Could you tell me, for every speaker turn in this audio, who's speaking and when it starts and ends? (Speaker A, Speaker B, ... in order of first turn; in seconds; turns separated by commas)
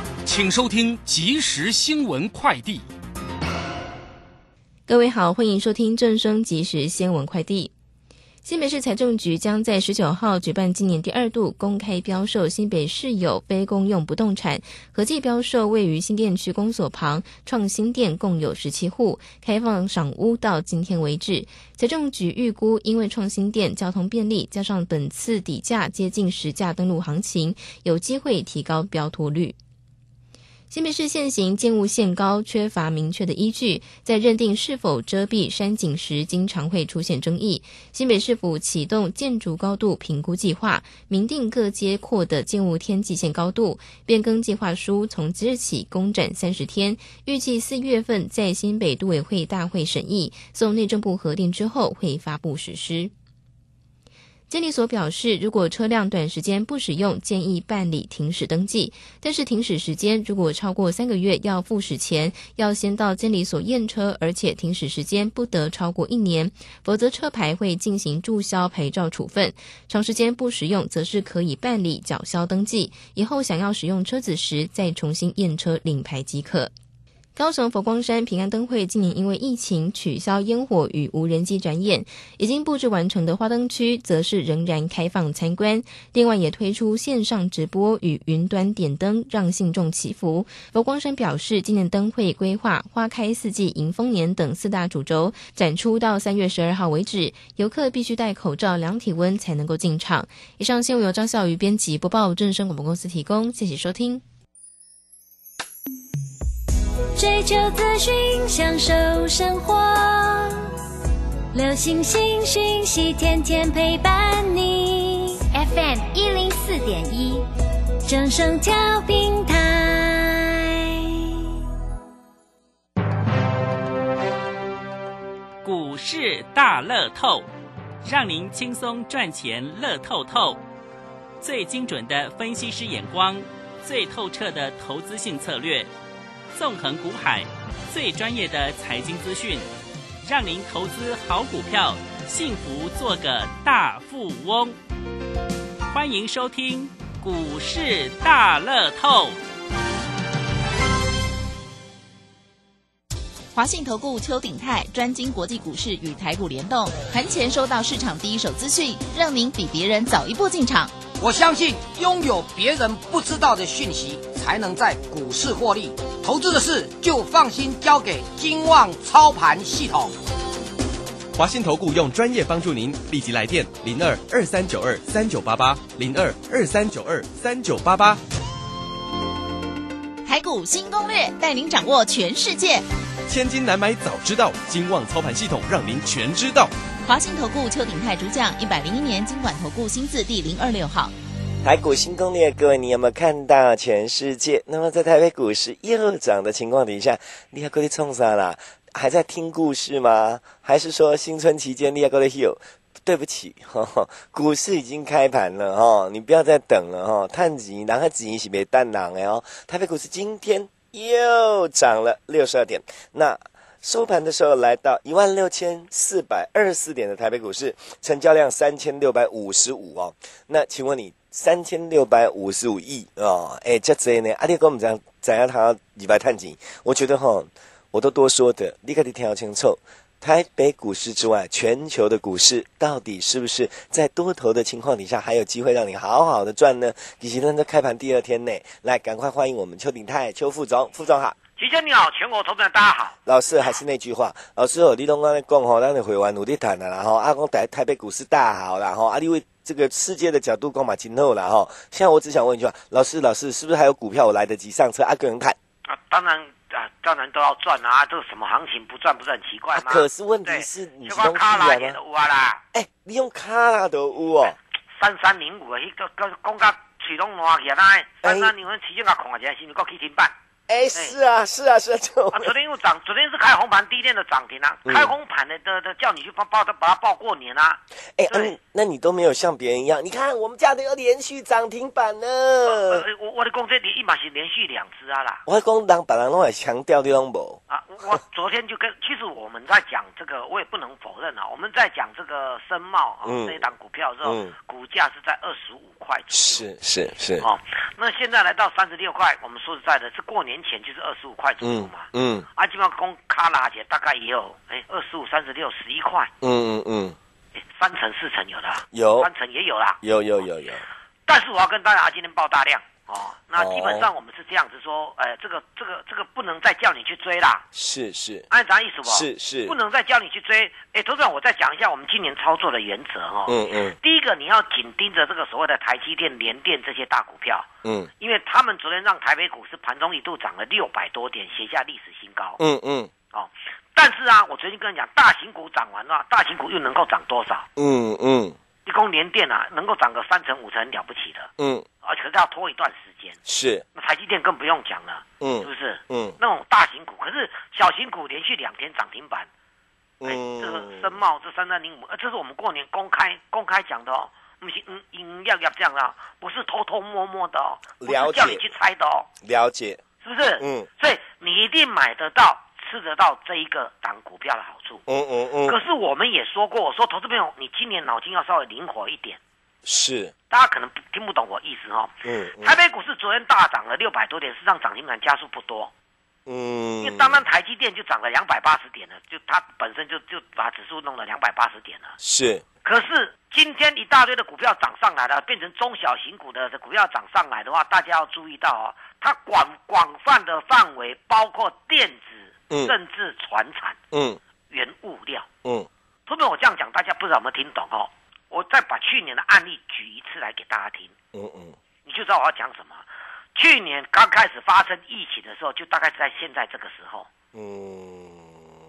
Speaker A: 0.2-2.9, Speaker B: 4.9-7.7, Speaker B: 8.4-29.6, Speaker B: 30.7-53.1, Speaker B: 54.5-76.7, Speaker B: 77.4-104.2, Speaker C: 107.2-110.7, Speaker C: 111.5-117.5, Speaker C: 118.1-121.5, Speaker D: 125.6-127.5, Speaker D: 128.0-130.6, Speaker D: 131.4-135.9, Speaker D: 136.5-139.7, Speaker D: 140.2-144.8, Speaker D: 145.9-149.4, Speaker E: 153.5-160.9, Speaker F: 161.2-170.2, Speaker G: 171.3-178.2, Speaker E: 180.2-182.9, Speaker G: 183.3-186.7, Speaker E: 187.0-191.1, Speaker H: 191.6-241.4, Speaker I: 241.6-243.2, Speaker H: 243.3-255.6, Speaker I: 255.9-262.6, Speaker H: 259.7-262.0, Speaker H: 262.7-264.6, Speaker I: 264.9-270.3, Speaker H: 268.2-268.5, Speaker H: 270.7-272.5, Speaker I: 272.3-278.5, Speaker H: 274.9-275.1, Speaker H: 278.2-283.1, Speaker I: 282.7-285.4, Speaker H: 285.5-287.6, Speaker I: 287.7-296.7, Speaker H: 293.2-293.6, Speaker H: 294.2-294.6, Speaker H: 296.3-297.5, Speaker I: 297.4-306.3, Speaker H: 301.6-302.5, Speaker H: 306.4-307.2, Speaker I: 307.6-310.0, Speaker H: 308.9-309.3, Speaker H: 310.0-310.8, Speaker I: 311.3-317.6, Speaker H: 313.6-314.1, Speaker H: 317.7-318.5, Speaker I: 318.5-327.7, Speaker H: 319.1-319.8, Speaker H: 323.5-324.0, Speaker H: 327.8-328.1, Speaker I: 328.2-332.6, Speaker H: 332.6-333.1, Speaker I: 333.3-337.7, Speaker H: 337.8-338.6, Speaker I: 338.9-341.5, Speaker H: 341.6-341.9, Speaker I: 342.0-343.4, Speaker H: 343.5-343.9, Speaker I: 343.9-349.5, Speaker H: 345.4-346.4, Speaker H: 350.2-351.2, Speaker I: 350.2-359.3, Speaker H: 358.0-358.7, Speaker H: 359.4-360.0, Speaker I: 360.2-365.0, Speaker H: 360.6-360.9, Speaker H: 365.1-365.8, Speaker I: 365.7-369.4, Speaker H: 369.9-370.3, Speaker I: 370.5-375.9, Speaker H: 372.2-372.8, Speaker H: 376.5-377.4, Speaker I: 377.0-382.2, Speaker H: 382.2-382.6, Speaker I: 382.8-394.0, Speaker H: 394.1-394.4, Speaker I: 394.7-395.5, Speaker I: 396.3-401.1, Speaker H: 401.3-401.8, Speaker I: 402.1-407.3, Speaker H: 407.5-408.7